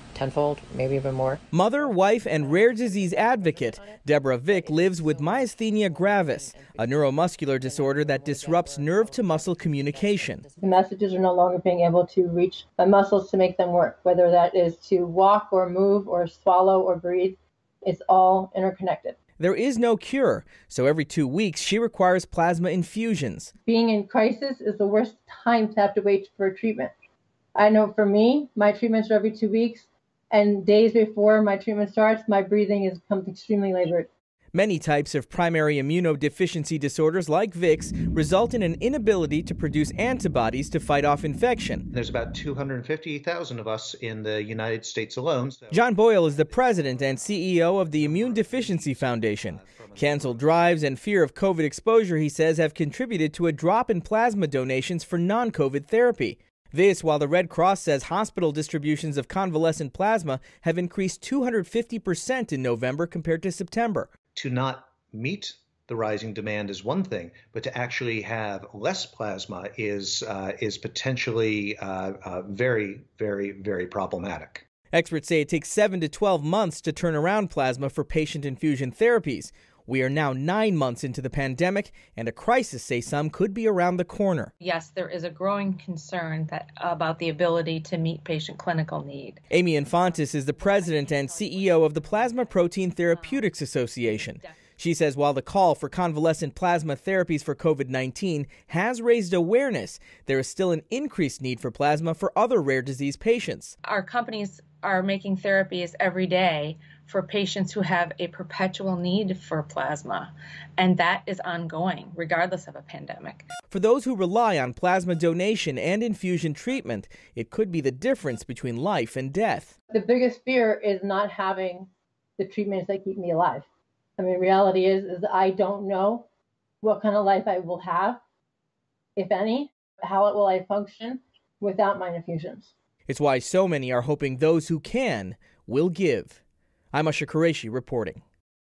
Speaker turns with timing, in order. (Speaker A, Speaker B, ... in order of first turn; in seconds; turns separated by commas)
Speaker A: 0.1-11.1, Speaker B: 1.5-10.4, Speaker C: 10.6-19.1, Speaker B: 19.4-23.5, Speaker C: 23.6-26.9, Speaker C: 27.5-34.1, Speaker B: 34.5-41.9, Speaker D: 41.9-50.8, Speaker B: 45.7-64.1, Speaker D: 64.3-74.6, Speaker B: 74.9-84.5, Speaker E: 84.6-89.4, Speaker B: 89.5-103.7, Speaker E: 91.0-92.1, Speaker E: 103.8-113.5, Speaker B: 113.7-119.7, Speaker C: 119.9-123.7, Speaker C: 124.2-126.2, Speaker C: 126.8-128.2, Speaker C: 129.2-132.7, Speaker B: 133.1-136.4, Speaker B: 136.9-138.2